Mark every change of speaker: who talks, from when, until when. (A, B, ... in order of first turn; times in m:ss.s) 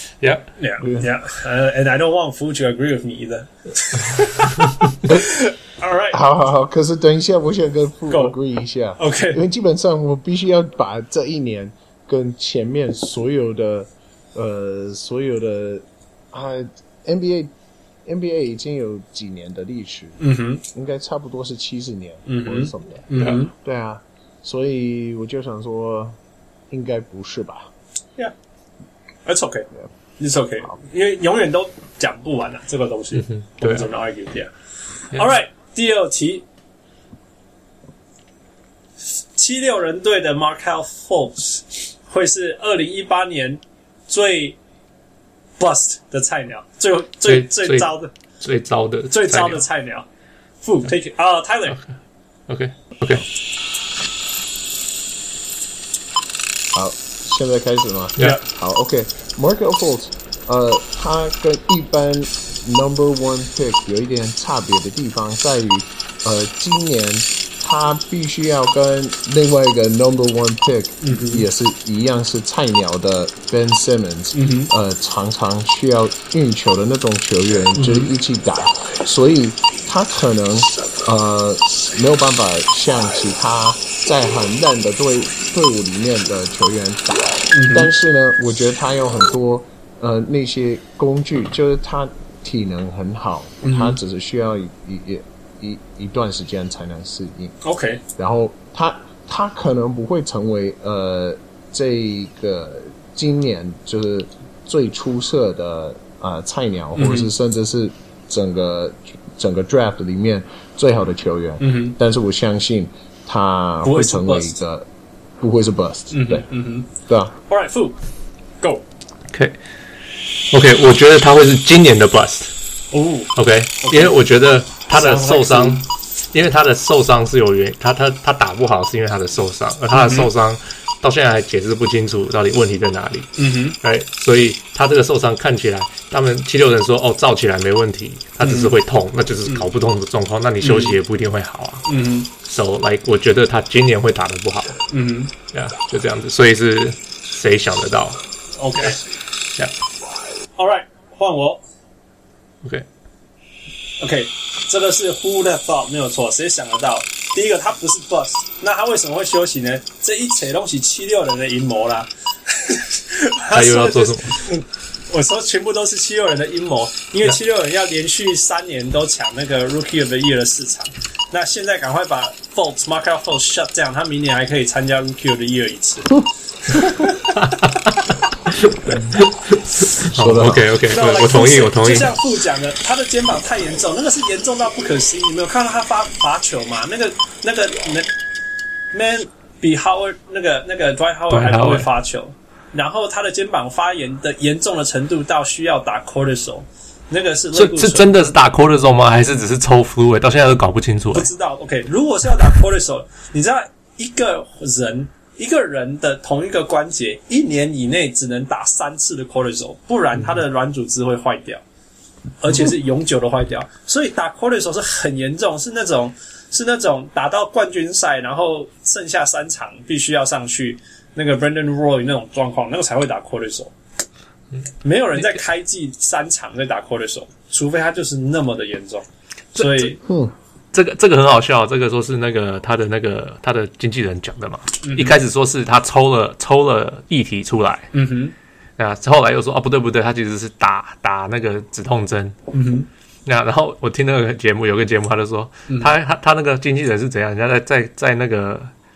0:00.2-0:00.5 A
0:00.6-0:06.2 B
0:06.1-0:17.5 C
0:08.1-0:08.4 B
0:09.0-0:09.4 B
0:18.1-0:26.2 C
0:20.2-0:20.6 B
0:22.3-0:23.5 B
0:26.7-0:27.7 C
0:29.3-0:29.7 B
0:30.2-0:34.5 B
0:33.2-0:33.9 A
0:35.1-0:36.4 B
0:39.4-0:44.6 B
0:45.6-0:48.1 B
0:47.3-0:49.6 A
0:49.1-0:50.1 B
0:50.6-0:51.8 B
0:52.5-0:53.3 A
0:56.7-1:37.6 C
1:11.0-1:11.4 B
1:14.3-1:14.7 B
1:17.8-1:18.1 B
1:27.5-1:27.9 B
1:33.6-1:34.0 B
1:37.6-1:38.0 B
1:38.2-1:54.9 C
1:47.0-1:47.3 B
1:51.6-1:52.0 B
1:53.8-1:54.6 B
1:55.4-1:56.5 C
1:56.1-1:56.9 B
1:57.0-1:57.4 C
1:57.5-1:58.0 B
1:59.3-1:59.6 A
2:00.5-2:02.5 A
2:02.9-2:04.2 B
2:03.4-2:24.8 A
2:04.9-2:05.9 B
2:09.9-2:10.3 B
2:13.4-2:13.8 B
2:18.4-2:18.8 B
2:20.6-2:21.0 B
2:21.9-2:22.3 B
2:24.9-2:25.3 B
2:25.5-2:28.2 A
2:28.6-2:29.0 B
2:30.6-2:31.6 B
2:34.0-2:57.4 B
2:43.5-2:44.4 A
2:57.4-2:58.0 A
2:58.5-3:02.2 A
3:00.1-3:00.7 C
3:00.9-3:08.1 B
3:08.9-3:18.4 B
3:11.3-3:11.9 A
3:17.5-3:21.3 A
3:21.1-3:31.6 B
3:32.4-3:43.7 B
3:44.8-3:50.0 B
3:45.2-3:45.4 A
3:49.6-3:49.9 A
3:50.0-3:50.3 C
3:50.7-3:57.9 A
3:54.8-3:55.2 B
3:57.9-3:58.3 B
3:58.8-4:02.4 A
4:02.5-4:02.9 B
4:03.3-4:08.7 A
4:05.7-4:05.9 B